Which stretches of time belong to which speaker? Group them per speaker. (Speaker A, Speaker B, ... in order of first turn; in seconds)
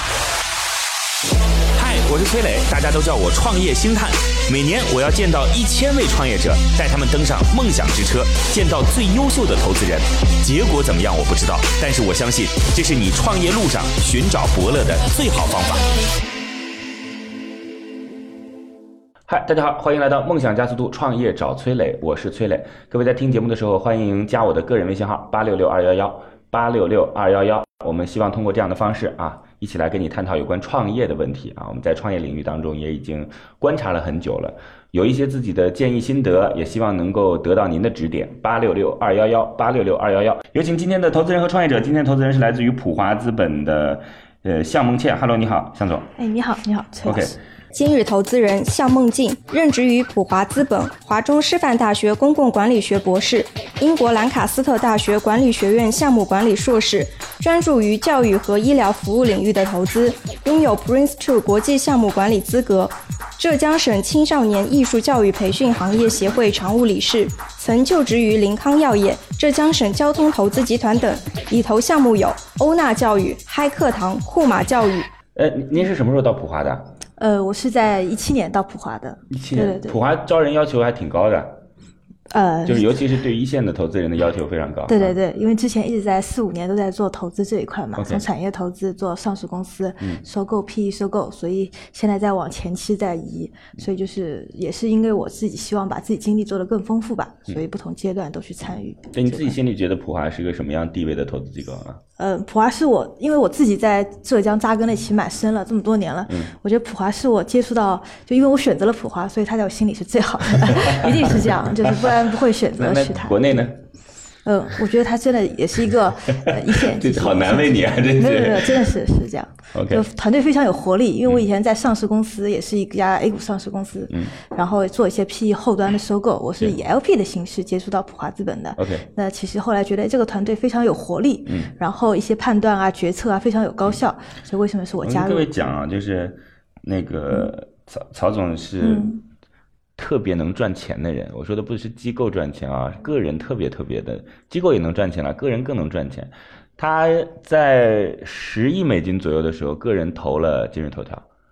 Speaker A: 1.7-15.8, 19.3-46.1, 47.0-47.4, 75.3-76.9, 79.3-81.6, 82.7-85.2, 88.0-88.2, 99.1-102.0, 112.8-113.8, 116.8-118.9, 119.7-120.0, 128.8-129.0, 131.4-131.7, 135.0-139.1, 140.0-151.2
Speaker B: 46.2-47.4, 77.2-80.0, 82.3-82.9, 84.9-99.6, 102.2-113.6, 114.4-135.5, 138.8-139.2
Speaker C: 47.7-75.1